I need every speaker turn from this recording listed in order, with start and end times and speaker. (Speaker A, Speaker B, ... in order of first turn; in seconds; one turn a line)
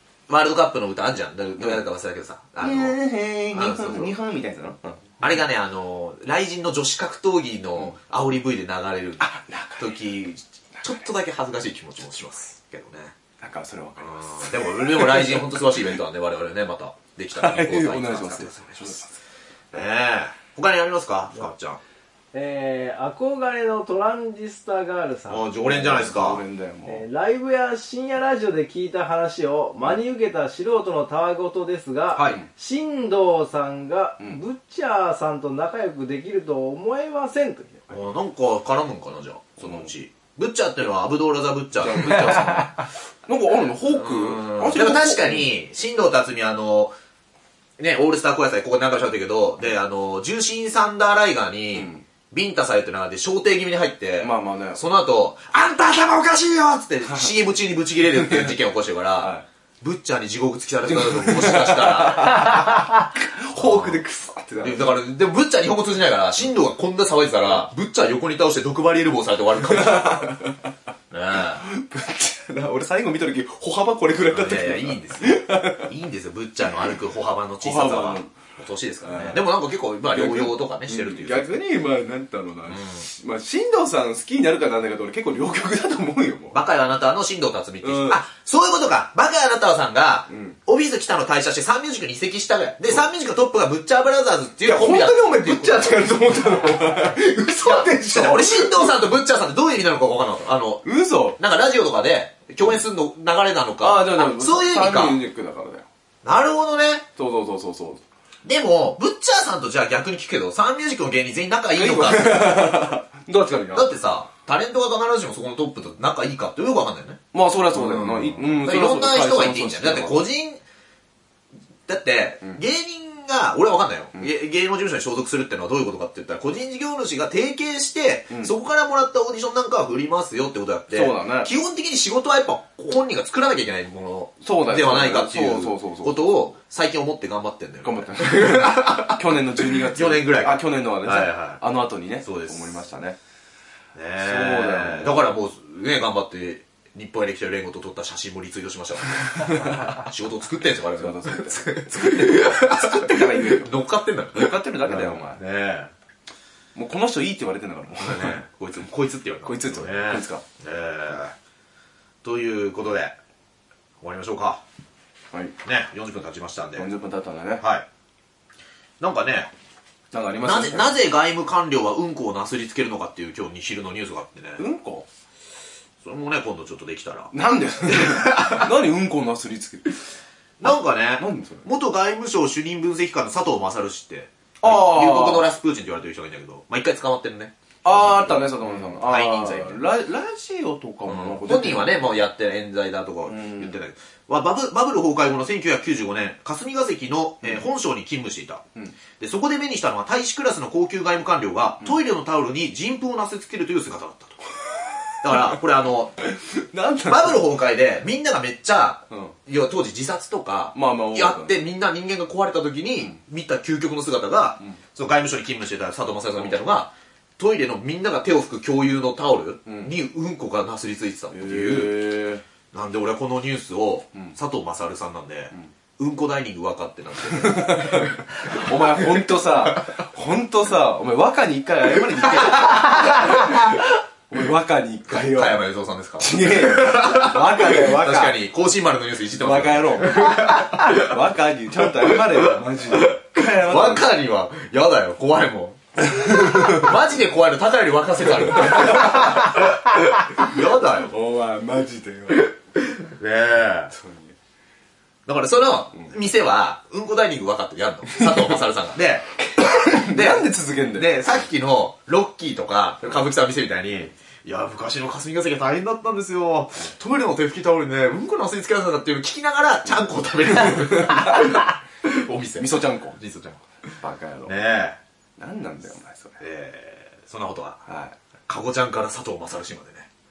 Speaker A: 0.3-3.0
Speaker B: 2.6-5.0
Speaker A: 3.5-4.2
Speaker A: 5.2-13.2
Speaker B: 9.2-10.1
Speaker B: 13.4-15.7
Speaker A: 14.0-19.0
Speaker B: 17.3-19.1
Speaker A: 19.7-21.8
Speaker C: 22.3-25.5
Speaker A: 25.3-26.4
Speaker B: 25.6-27.1
Speaker C: 26.9-37.9
Speaker A: 32.1-32.4
Speaker A: 37.9-42.4
Speaker B: 39.6-39.9
Speaker B: 41.8-45.5
Speaker A: 43.9-47.0
Speaker A: 47.8-62.7
Speaker B: 51.7-52.0
Speaker B: 54.2-54.8
Speaker B: 59.2-59.5
Speaker B: 60.9-64.9
Speaker A: 63.5-64.0
Speaker A: 64.6-70.3
Speaker B: 69.7-70.6
Speaker A: 71.1-71.7
Speaker B: 71.6-75.9
Speaker A: 74.3-81.6
Speaker B: 77.6-78.4
Speaker B: 79.0-79.4
Speaker B: 80.1-86.6
Speaker A: 82.7-83.0
Speaker A: 86.5-96.0
Speaker B: 87.8-88.2
Speaker B: 90.3-90.6
Speaker B: 94.7-99.0
Speaker A: 97.6-105.2
Speaker B: 100.8-101.4
Speaker B: 103.8-105.9
Speaker A: 106.2-107.1
Speaker B: 107.2-108.0
Speaker A: 108.4-112.9
Speaker B: 111.8-113.9
Speaker A: 113.7-117.2
Speaker B: 117.3-120.2
Speaker A: 117.7-120.6
Speaker A: 121.9-141.6
Speaker B: 130.9-131.5
Speaker B: 134.4-136.3
Speaker B: 137.8-143.2
Speaker A: 142.2-142.7
Speaker A: 143.9-155.9
Speaker B: 144.2-145.2
Speaker B: 149.4-149.9
Speaker B: 151.0-153.7
Speaker B: 154.3-155.4
Speaker B: 156.8-158.4
Speaker A: 158.0-161.3
Speaker B: 159.4-160.4
Speaker A: 162.2-163.2
Speaker A: 164.0-164.6
Speaker A: 165.6-166.9
Speaker B: 166.8-167.7
Speaker A: 167.6-167.9
Speaker A: 169.0-169.5
Speaker B: 170.1-171.0
Speaker A: 170.4-174.6
Speaker B: 174.6-175.1
Speaker A: 176.0-177.3
Speaker B: 177.3-180.1
Speaker A: 177.8-178.7
Speaker A: 180.6-189.9
Speaker B: 180.7-181.7
Speaker B: 184.6-185.5
Speaker B: 187.8-192.1
Speaker A: 191.1-198.7
Speaker B: 193.3-193.8
Speaker A: 199.2-204.4
Speaker A: 205.2-206.2
Speaker B: 206.2-207.5
Speaker A: 207.0-222.0
Speaker B: 209.1-209.3
Speaker B: 210.7-211.6
Speaker B: 219.7-219.9
Speaker B: 221.3-222.4
Speaker A: 222.7-229.8
Speaker B: 227.3-235.7
Speaker A: 232.1-233.7
Speaker A: 235.1-241.2
Speaker B: 236.2-238.4
Speaker B: 239.4-244.1
Speaker A: 241.8-251.1
Speaker B: 246.1-246.9
Speaker B: 248.5-252.5
Speaker A: 252.8-253.9
Speaker B: 253.9-254.3
Speaker A: 255.3-273.6
Speaker B: 258.1-258.6
Speaker B: 259.4-261.2
Speaker B: 270.6-271.6
Speaker B: 272.6-273.2
Speaker B: 274.0-274.5
Speaker A: 274.4-275.0
Speaker B: 275.4-276.4
Speaker A: 276.4-277.8
Speaker B: 277.9-278.1
Speaker A: 278.5-280.1